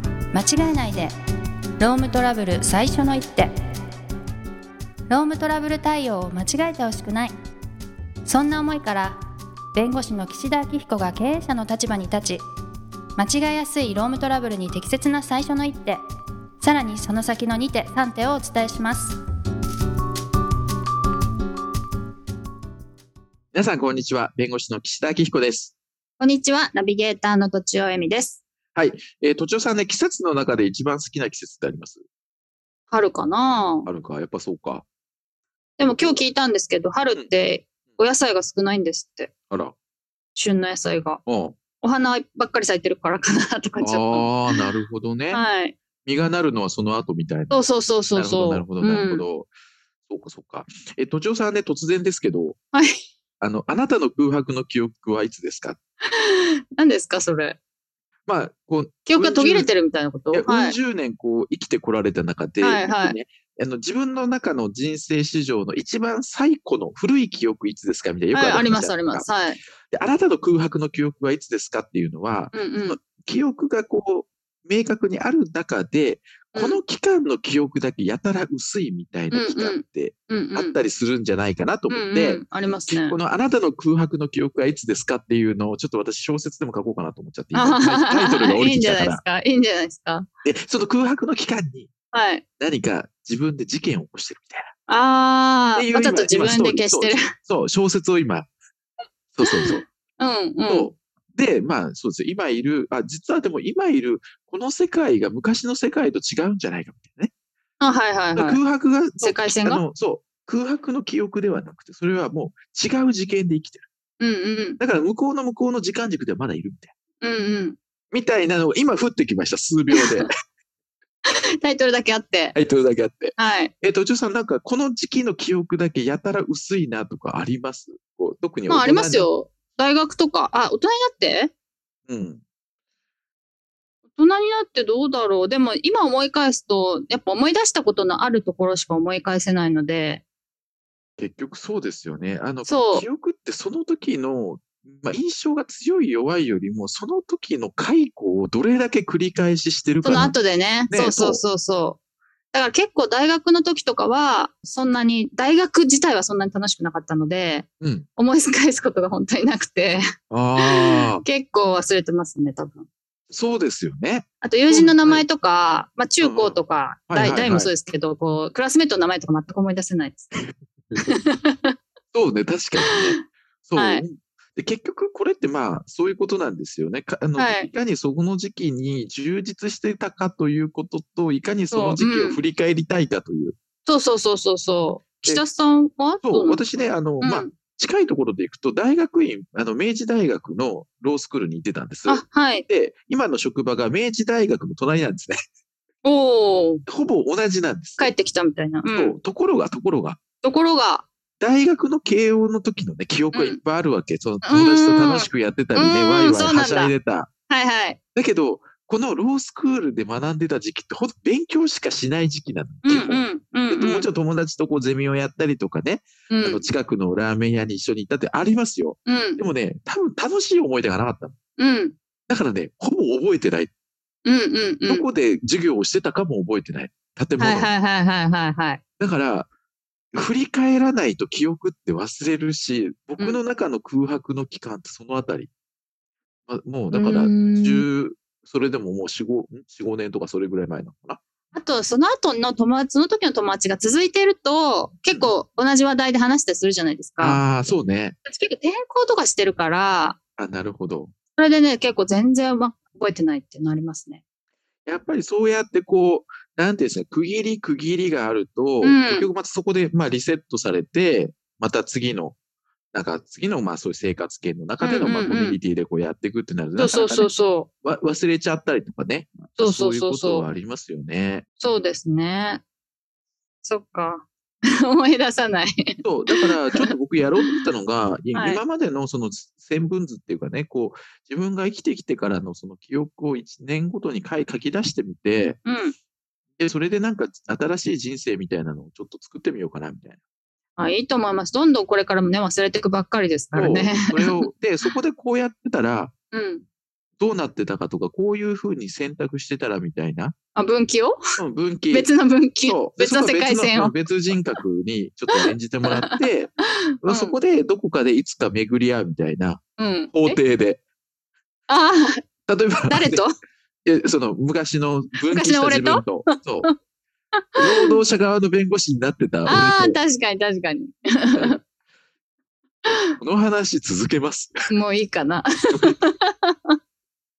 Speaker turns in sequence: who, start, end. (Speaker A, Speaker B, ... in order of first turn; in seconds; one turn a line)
Speaker A: 0.3-1.1
Speaker A: 1.8-3.5
Speaker A: 5.1-7.3
Speaker A: 8.2-9.2
Speaker A: 9.7-12.4
Speaker A: 13.2-16.0
Speaker A: 16.6-19.2
Speaker B: 23.5-25.8
Speaker C: 26.2-28.4
Speaker B: 28.8-32.0
Speaker C: 32.9-33.9
Speaker B: 33.9-34.9
Speaker C: 35.8-39.3
Speaker B: 35.9-36.2
Speaker B: 39.5-39.8
Speaker C: 40.4-41.2
Speaker B: 41.3-41.6
Speaker C: 41.8-44.6
Speaker B: 43.8-45.4
Speaker C: 45.3-45.8
Speaker B: 46.0-47.6
Speaker C: 47.5-49.3
Speaker B: 48.1-49.5
Speaker B: 50.1-52.6
Speaker C: 52.7-53.0
Speaker B: 53.4-55.8
Speaker C: 56.1-57.6
Speaker B: 58.3-59.7
Speaker C: 59.1-60.8
Speaker B: 60.3-69.3
Speaker C: 62.6-63.2
Speaker C: 68.3-69.6
Speaker B: 69.9-89.2
Speaker C: 72.5-73.0
Speaker C: 76.5-76.8
Speaker C: 79.3-80.8
Speaker C: 81.9-83.2
Speaker C: 87.5-90.3
Speaker B: 90.4-91.9
Speaker C: 92.1-92.4
Speaker B: 92.6-94.7
Speaker C: 94.9-97.3
Speaker B: 95.8-98.5
Speaker B: 99.3-99.8
Speaker C: 99.5-100.9
Speaker B: 100.7-107.3
Speaker C: 107.8-108.6
Speaker B: 108.4-113.8
Speaker C: 109.2-109.8
Speaker C: 114.2-114.8
Speaker B: 114.8-116.9
Speaker C: 117.2-117.8
Speaker B: 118.1-120.3
Speaker C: 120.0-120.3
Speaker C: 121.3-122.6
Speaker B: 122.5-129.3
Speaker C: 123.4-123.7
Speaker C: 128.7-131.5
Speaker B: 132.1-132.4
Speaker C: 134.2-140.2
Speaker B: 141.2-150.3
Speaker C: 142.7-143.1
Speaker C: 150.0-152.0
Speaker B: 150.9-151.4
Speaker C: 152.5-157.7
Speaker B: 157.8-158.1
Speaker C: 158.2-160.0
Speaker B: 160.3-161.2
Speaker C: 160.6-162.9
Speaker B: 163.3-165.2
Speaker C: 164.4-170.3
Speaker B: 166.2-166.6
Speaker B: 167.1-167.7
Speaker C: 171.0-171.7
Speaker B: 172.1-183.6
Speaker C: 172.8-173.2
Speaker C: 173.8-174.0
Speaker C: 177.4-177.7
Speaker C: 181.7-182.4
Speaker C: 183.9-186.6
Speaker B: 186.2-195.4
Speaker C: 187.2-187.6
Speaker C: 192.1-192.7
Speaker C: 196.0-196.8
Speaker B: 196.9-198.1
Speaker C: 198.0-199.2
Speaker B: 198.9-200.2
Speaker C: 200.4-201.1
Speaker B: 201.4-207.3
Speaker C: 203.3-203.6
Speaker C: 204.4-206.9
Speaker C: 207.5-208.0
Speaker B: 208.2-221.4
Speaker C: 212.8-214.1
Speaker C: 216.3-216.7
Speaker C: 219.1-219.4
Speaker C: 221.6-221.9
Speaker B: 222.3-223.7
Speaker C: 224.3-225.1
Speaker B: 224.9-227.7
Speaker C: 227.4-228.8
Speaker B: 229.0-229.5
Speaker B: 230.1-235.5
Speaker B: 236.5-241.2
Speaker C: 236.9-237.9
Speaker C: 241.5-247.4
Speaker B: 247.2-248.2
Speaker C: 248.2-250.2
Speaker B: 250.4-251.1
Speaker C: 251.4-254.2
Speaker B: 254.9-262.4
Speaker C: 258.8-259.3
Speaker B: 262.9-267.3
Speaker C: 264.8-265.6
Speaker C: 266.8-267.7
Speaker B: 267.8-271.5
Speaker C: 269.6-270.5
Speaker C: 271.6-272.6
Speaker C: 273.6-276.9
Speaker B: 276.0-285.6
Speaker C: 278.3-278.6
Speaker C: 285.6-285.9
Speaker B: 286.6-290.2
Speaker C: 290.8-294.5
Speaker B: 293.5-296.1
Speaker C: 296.3-296.6
Speaker B: 297.2-300.4
Speaker C: 300.6-301.2
Speaker B: 301.4-302.1
Speaker C: 301.9-303.9
Speaker B: 302.6-309.6
Speaker C: 305.4-306.2
Speaker C: 307.0-307.4
Speaker C: 309.8-310.4
Speaker B: 310.1-310.8
Speaker C: 311.7-312.2
Speaker B: 312.5-313.2
Speaker C: 312.9-313.3
Speaker B: 313.9-316.7
Speaker C: 315.3-316.8
Speaker C: 317.4-318.0
Speaker B: 317.6-320.0
Speaker C: 319.5-321.6
Speaker B: 321.3-321.6
Speaker C: 322.9-323.1
Speaker B: 323.2-324.7
Speaker C: 324.7-326.8